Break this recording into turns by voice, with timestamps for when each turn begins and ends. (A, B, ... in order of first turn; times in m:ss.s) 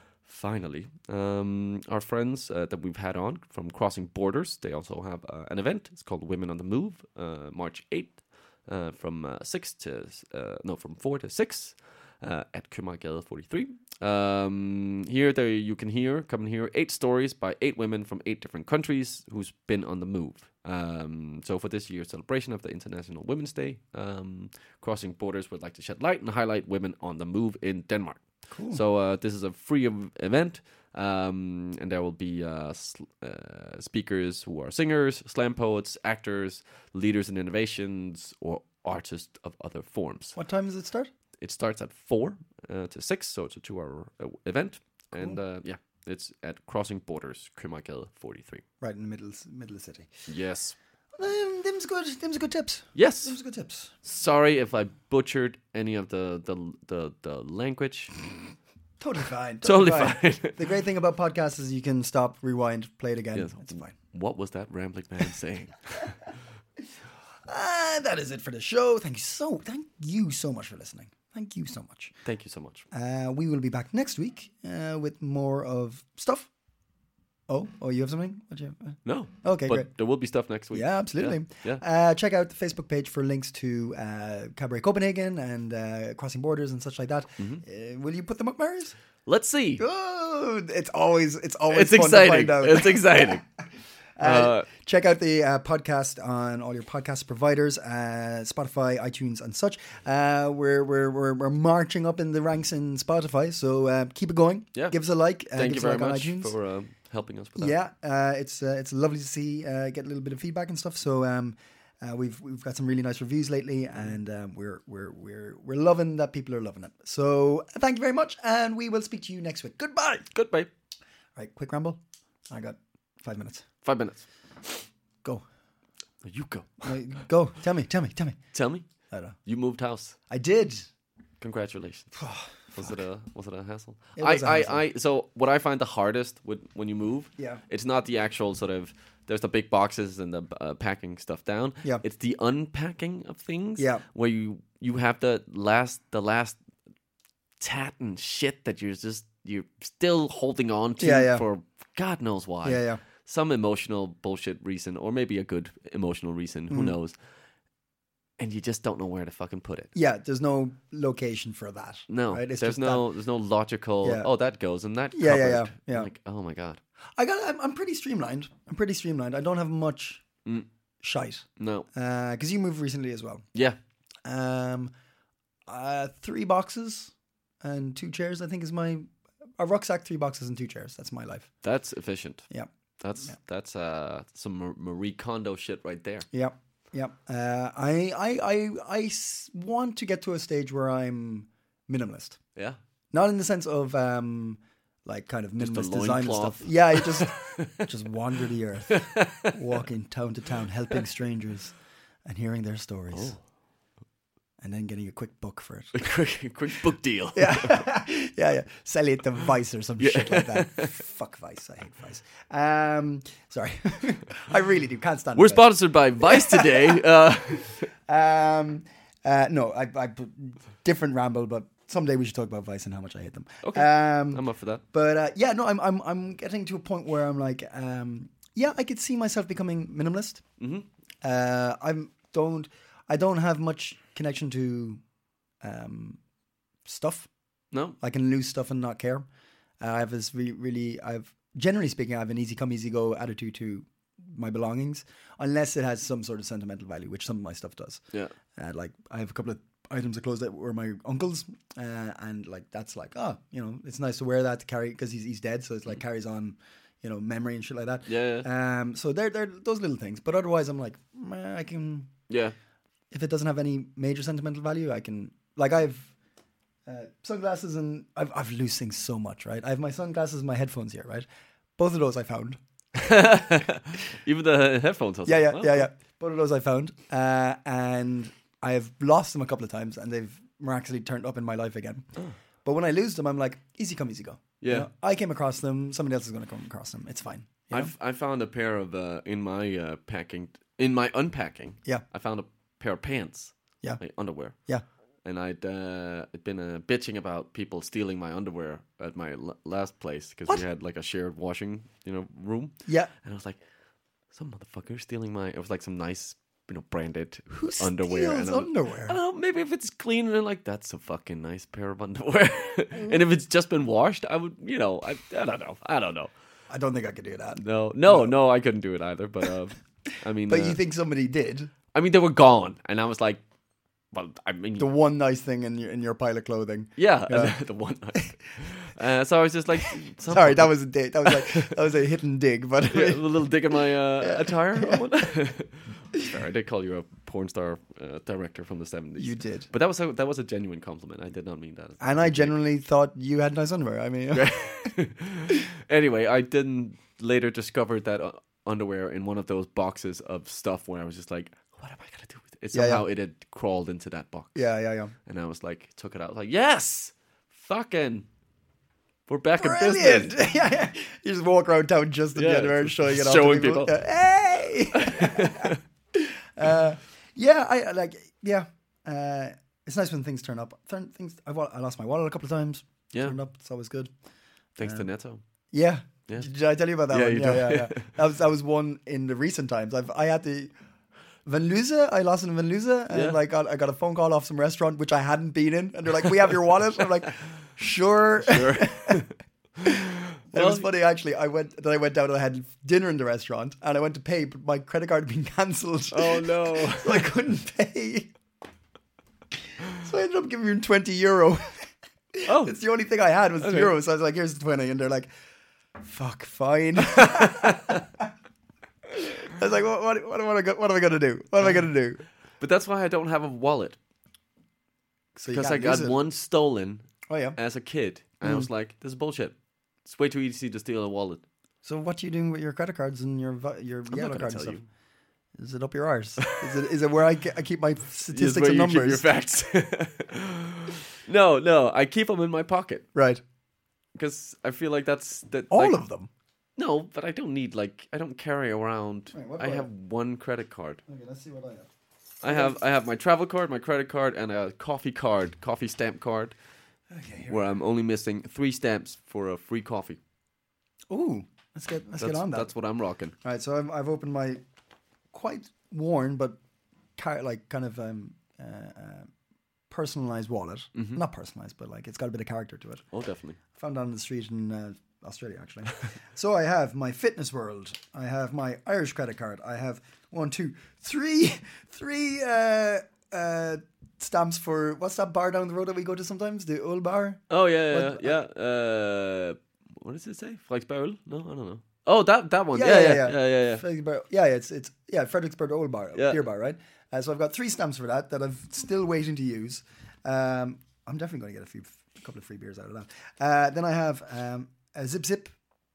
0:00.2-0:40.4 A
0:28.5-0:28.8 B
0:40.4-0:41.1 B
0:41.4-0:48.6 A
0:48.8-0:50.1 B
0:50.3-0:50.8 A
0:51.2-0:53.9 B
0:52.9-0:53.3 A
0:54.0-0:58.1 A
0:59.0-1:03.9 B
0:59.6-1:00.6 A
1:03.3-1:06.2 A
1:07.5-1:12.1 B
1:12.2-1:12.8 A
1:12.9-1:16.5 B
1:17.5-1:19.9 B
1:19.0-1:21.8 A
1:20.7-1:28.9 B
1:29.2-1:29.8 A
1:29.8-1:33.4 B
1:31.7-1:33.4 A
1:34.2-1:46.5 B
1:34.2-1:34.7 A
1:44.7-1:45.0 A
1:45.5-1:47.8 A
1:47.6-2:00.3 B
2:00.3-2:00.7 A
2:01.4-2:03.6 B
2:03.8-2:04.8 A
2:06.2-2:06.9 A
2:06.8-2:08.4 B
2:08.5-2:08.9 A
2:09.1-2:09.4 B
2:09.4-2:10.2 A
2:10.3-2:10.9 B
2:11.4-2:26.6 A
2:12.1-2:13.0 B
2:14.2-2:14.8 B
2:23.8-2:24.0 B
2:27.6-2:37.2 A
2:31.0-2:31.4 B
2:32.6-2:33.0 B
2:36.7-2:37.0 B
2:38.4-2:39.9 A
2:39.9-2:43.0 B
2:42.1-2:46.8 A
2:44.0-2:44.3 B
2:45.1-2:46.1 B
2:47.2-2:50.2 B
2:51.0-2:53.4 B
2:51.6-2:51.9 A
2:54.2-2:54.9 B
2:55.7-2:59.1 B
2:59.6-3:01.5 B
3:01.6-3:02.5 A
3:03.0-3:06.3 A
3:06.3-3:12.4 B
3:13.1-3:21.7 B
3:15.6-3:17.7 A
3:18.9-3:19.8 A
3:22.2-3:23.4 B
3:23.1-3:23.4 A
3:24.6-3:26.0 B
3:25.9-3:27.8 A
3:27.3-3:37.0 B
3:30.0-3:30.9 A
3:35.3-3:37.9 A
3:38.0-3:50.4 B
3:43.6-3:44.8 A
3:50.6-3:50.9 A
3:51.2-3:55.0 B
3:55.6-3:56.2 B
3:56.8-3:57.3 B
3:57.7-3:58.0 A
3:58.0-3:59.2 B
3:59.8-4:08.0 B
4:08.5-4:22.1 B
4:18.0-4:18.5 A
4:22.3-4:22.6 A
4:23.1-4:26.1 B
4:26.8-4:32.6 B
4:33.0-4:35.9 A
4:35.3-4:42.1 B
4:42.6-4:47.9 B
4:44.6-4:44.9 A
4:47.7-4:54.6 A
4:54.5-4:54.8 B
4:55.2-5:03.6 A
5:04.3-5:16.3 A
5:07.6-5:09.2 B
5:12.9-5:13.2 B
5:16.7-5:18.4 B
5:17.6-5:20.8 A
5:20.4-5:21.7 B
5:21.9-5:23.4 A
5:24.1-5:24.9 A
5:24.8-5:27.6 B
5:27.0-5:31.8 A
5:30.2-5:33.2 B
5:32.9-5:42.5 A
5:34.2-5:35.0 B
5:39.2-5:39.7 B
5:42.0-5:44.9 B
5:44.3-5:54.6 A
5:52.7-5:53.0 B
5:54.5-5:55.1 B
5:55.2-5:58.3 A
5:59.3-6:00.4 A
5:59.6-6:14.1 B
6:02.3-6:04.0 A
6:05.0-6:05.8 A
6:13.1-6:13.4 A
6:14.8-6:15.4 A
6:14.8-6:15.1 B
6:15.7-6:20.7 B
6:17.1-6:18.1 A
6:21.4-6:29.2 B
6:23.1-6:23.4 A
6:28.4-6:29.3 A
6:30.5-6:30.9 A
6:30.5-6:38.3 B
6:36.1-6:37.3 A
6:39.9-6:45.3 B
6:42.4-6:42.8 A
6:43.6-6:43.9 A
6:46.0-6:48.3 B
6:47.1-6:48.0 A
6:49.1-6:52.2 B
6:51.6-6:51.9 A
6:52.6-6:54.0 A
6:55.4-6:56.2 B
6:55.5-7:01.4 A
6:57.3-6:57.6 B
6:58.4-6:58.7 B
7:01.8-7:04.8 B
7:04.1-7:04.8 A
7:05.6-7:09.3 B
7:08.3-7:13.1 A
7:13.1-7:13.4 B
7:14.1-7:16.0 A
7:15.7-7:16.3 B
7:16.8-7:21.0 A
7:19.3-7:19.9 B
7:21.1-7:21.9 B
7:22.4-7:26.6 A
7:22.4-7:22.8 B
7:27.1-7:27.6 B
7:27.5-7:30.2 A
7:31.1-7:32.7 B
7:32.2-7:33.3 A
7:33.4-7:34.6 B
7:35.3-7:36.6 B
7:37.2-7:39.3 B
7:39.9-7:43.0 B
7:40.9-7:41.2 A
7:43.1-7:43.6 A
7:43.7-7:58.4 B
7:57.5-8:03.8 A
8:02.7-8:15.5 B
8:06.1-8:06.4 A